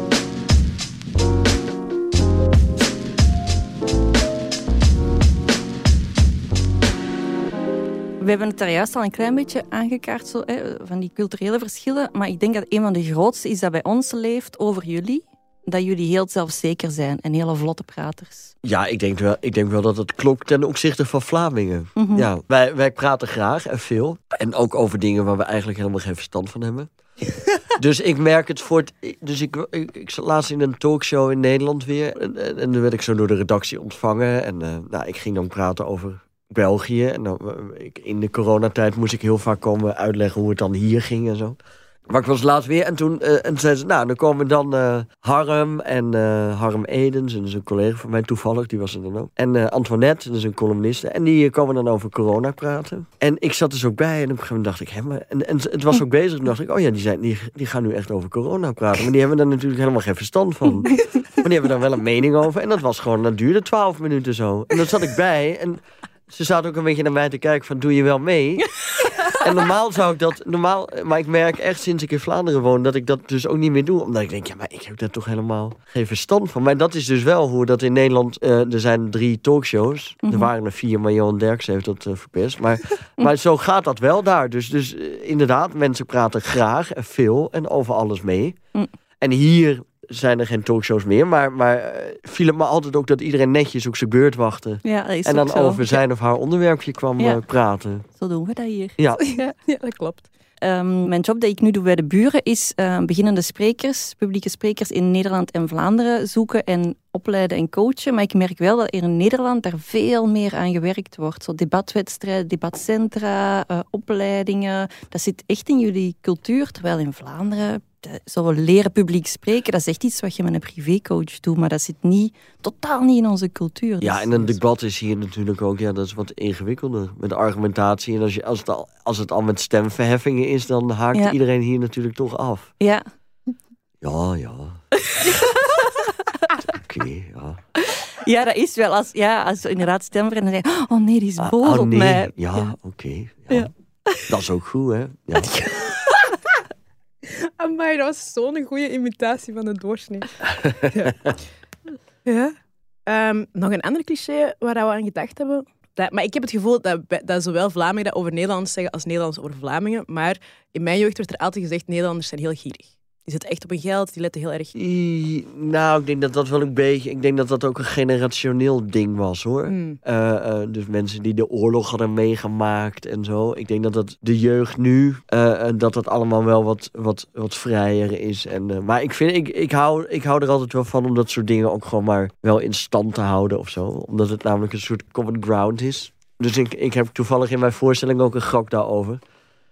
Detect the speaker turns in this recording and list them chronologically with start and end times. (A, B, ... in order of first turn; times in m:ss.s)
0:08.2-0:18.5 A
0:18.6-0:26.9 B
0:22.0-0:22.3 A
0:27.7-1:08.7 B
1:09.0-1:09.4 C
1:09.3-1:28.6 B
1:29.2-1:38.0 B
1:34.8-1:36.0 A
1:38.2-1:39.5 A
1:39.0-1:39.2 B
1:39.2-1:40.3 C
1:40.6-2:04.6 A
2:04.0-2:12.7 B
2:12.8-2:13.1 A
2:14.0-2:14.8 B
2:15.1-2:16.6 A
2:16.7-2:17.6 B
2:17.8-2:22.7 A
2:21.4-2:23.7 B
2:23.5-2:24.3 A
2:24.3-2:25.6 B
2:25.6-2:26.3 A
2:27.2-2:31.2 C
2:30.5-2:31.4 B
2:32.2-2:44.7 C
2:44.8-3:09.2 B
2:49.7-2:50.0 C